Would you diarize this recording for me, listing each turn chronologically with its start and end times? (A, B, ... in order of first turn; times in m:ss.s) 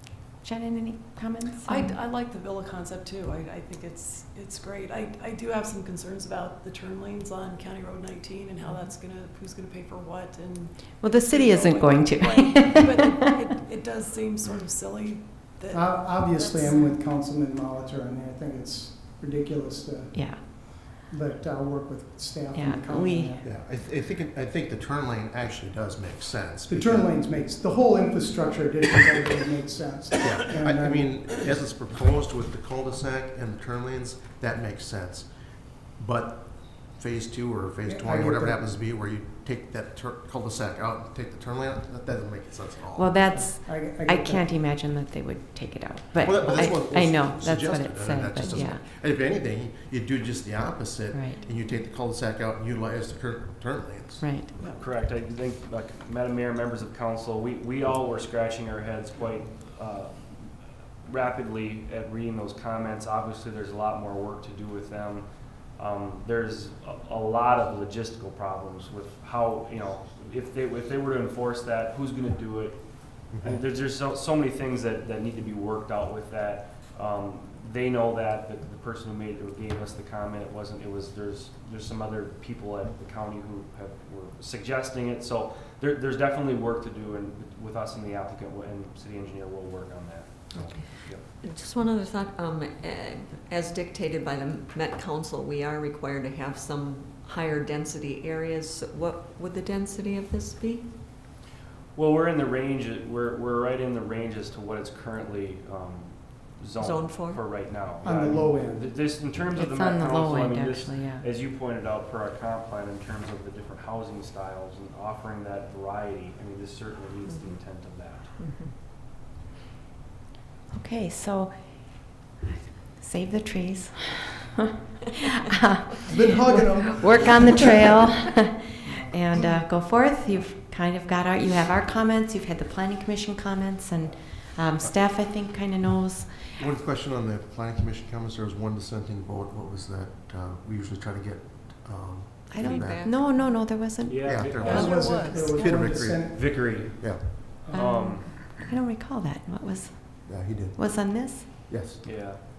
0:00.4-0:02.0 A
0:01.6-0:17.0 B
0:11.0-0:13.2 A
0:15.7-0:23.4 C
0:20.1-0:20.7 A
0:22.5-0:23.4 A
0:23.4-0:27.1 D
0:26.7-0:31.3 C
0:30.2-0:43.2 D
0:37.8-0:38.6 C
0:42.9-0:48.8 A
0:43.3-0:44.5 C
0:46.2-0:54.3 D
0:51.1-0:51.4 A
0:54.2-0:54.5 A
0:54.6-0:54.8 B
0:54.6-1:31.2 E
1:13.3-1:13.6 D
1:30.5-1:40.9 F
1:41.9-1:58.4 E
1:46.8-1:47.4 F
1:48.0-1:48.9 C
1:49.5-1:51.2 A
1:57.3-1:57.5 F
2:00.7-2:02.2 A
2:02.9-2:04.7 A
2:05.4-2:16.5 A
2:06.0-2:07.8 C
2:08.8-2:09.6 C
2:16.6-2:23.1 D
2:22.5-2:24.2 A
2:22.6-2:23.4 F
2:24.0-2:25.2 E
2:24.2-2:27.2 D
2:24.6-2:25.8 B
2:24.7-2:26.4 C
2:26.1-2:28.3 E
2:27.7-2:31.5 A
2:30.2-2:32.0 D
2:32.0-2:32.4 E